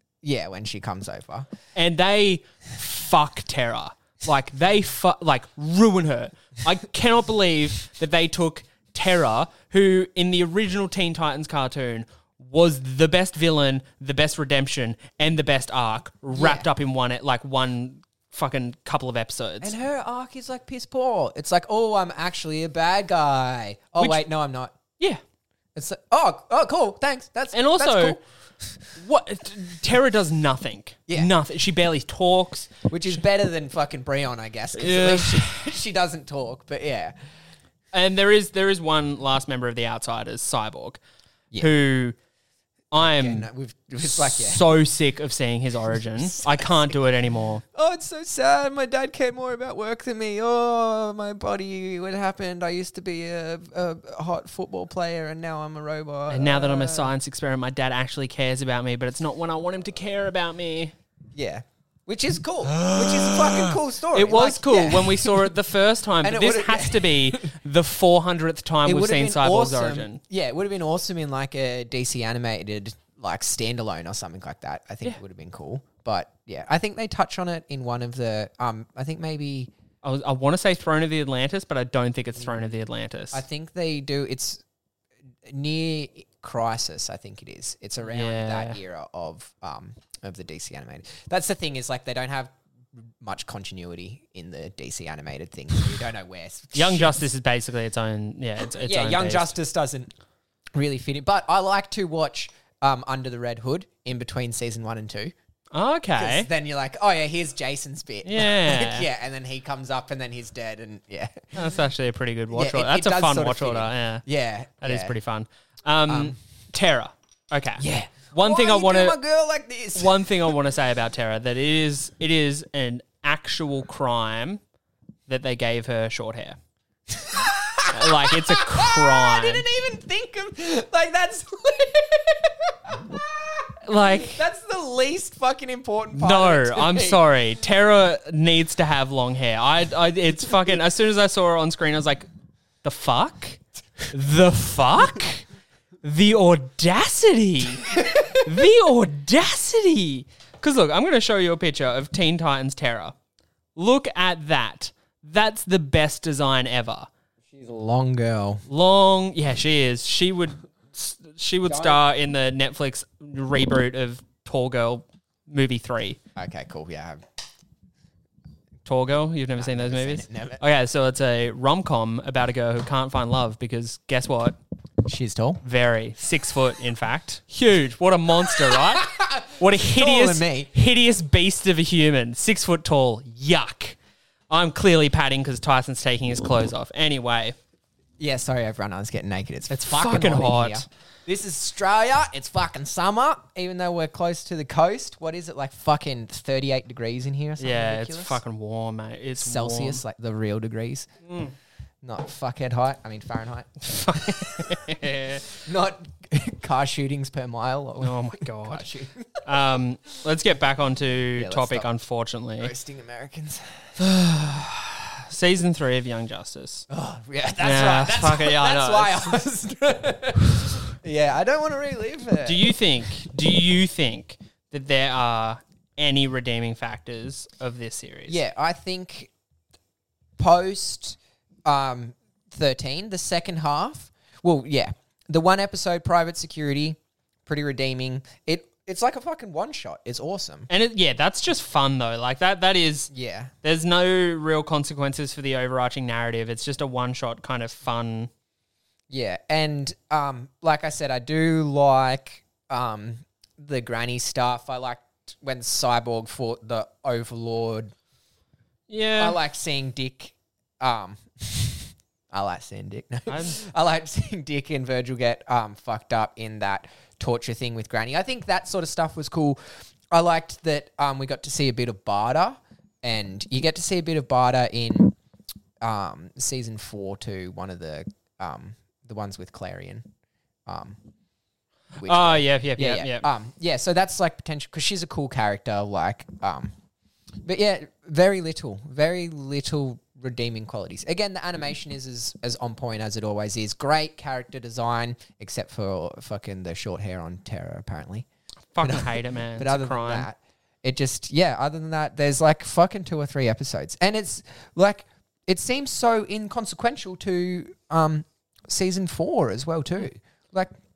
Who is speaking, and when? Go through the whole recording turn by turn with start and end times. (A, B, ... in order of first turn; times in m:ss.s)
0:00.2-0:01.5 A
0:01.8-0:19.8 B
0:16.3-0:16.7 A
0:19.6-0:24.8 A
0:25.8-0:28.8 A
0:27.5-0:28.2 B
0:29.0-0:32.9 B
0:32.9-0:37.2 A
0:34.8-0:35.6 B
0:37.9-0:41.0 B
0:41.6-0:42.2 B
0:42.9-0:43.5 B
0:43.0-0:44.6 A
0:44.1-0:47.6 B
0:46.2-0:46.7 A
0:47.7-0:57.1 A
0:56.3-1:00.9 B
1:01.3-1:05.5 A
1:02.7-1:10.2 B
1:06.2-1:07.5 A
1:08.8-1:19.7 A
1:20.0-1:23.4 B
1:23.3-1:24.6 A
1:25.5-1:37.2 A
1:28.0-1:28.8 B
1:36.7-1:39.6 B
1:38.6-1:40.1 A
1:40.8-1:45.3 A
1:45.7-1:46.5 B
1:46.2-1:51.7 A
1:48.2-1:49.1 B
1:51.5-1:54.2 B
1:52.5-1:55.2 A
1:54.8-1:59.2 B
1:56.1-1:56.4 A
1:57.8-2:00.5 A
2:00.0-2:04.6 B
2:05.3-2:06.6 B
2:07.2-2:17.2 A
2:07.9-2:09.6 B
2:13.8-2:14.4 B
2:16.1-2:22.3 B
2:22.8-2:25.4 B
2:26.0-2:33.2 B
2:28.0-2:28.4 A
2:33.8-2:37.1 B
2:37.5-2:38.6 A
2:38.7-2:46.2 B
2:41.7-2:42.0 A
2:46.4-2:47.2 A
2:48.9-2:54.6 B
2:49.6-2:50.6 A
2:55.0-2:55.6 A
2:55.6-3:04.0 B
2:58.6-3:00.7 A
3:04.5-3:07.6 B
3:08.2-3:18.4 A
3:09.7-3:10.9 B
3:17.6-3:20.0 B
3:19.4-3:21.1 A
3:21.3-3:21.5 B
3:22.0-3:24.4 A
3:23.8-3:25.5 B
3:25.5-3:29.4 A
3:28.0-3:28.9 B
3:29.4-3:32.7 B
3:31.4-3:31.9 A
3:32.6-3:33.9 A
3:34.0-3:36.9 B
3:36.9-3:42.7 A
3:37.6-3:39.4 B
3:42.4-3:48.4 B
3:48.3-3:49.3 A
3:50.4-4:00.7 A
4:00.7-4:03.1 B
4:03.1-4:03.5 A
4:03.6-4:08.3 B
4:09.1-4:17.9 A
4:18.9-4:19.4 B
4:19.2-4:29.6 A
4:23.3-4:23.6 B
4:30.1-4:35.2 A
4:35.8-4:40.1 A
4:40.7-4:41.0 A
4:42.0-4:46.7 A
4:42.0-4:43.3 B
4:47.4-4:58.3 A
4:58.7-5:00.3 B
4:58.8-5:10.7 A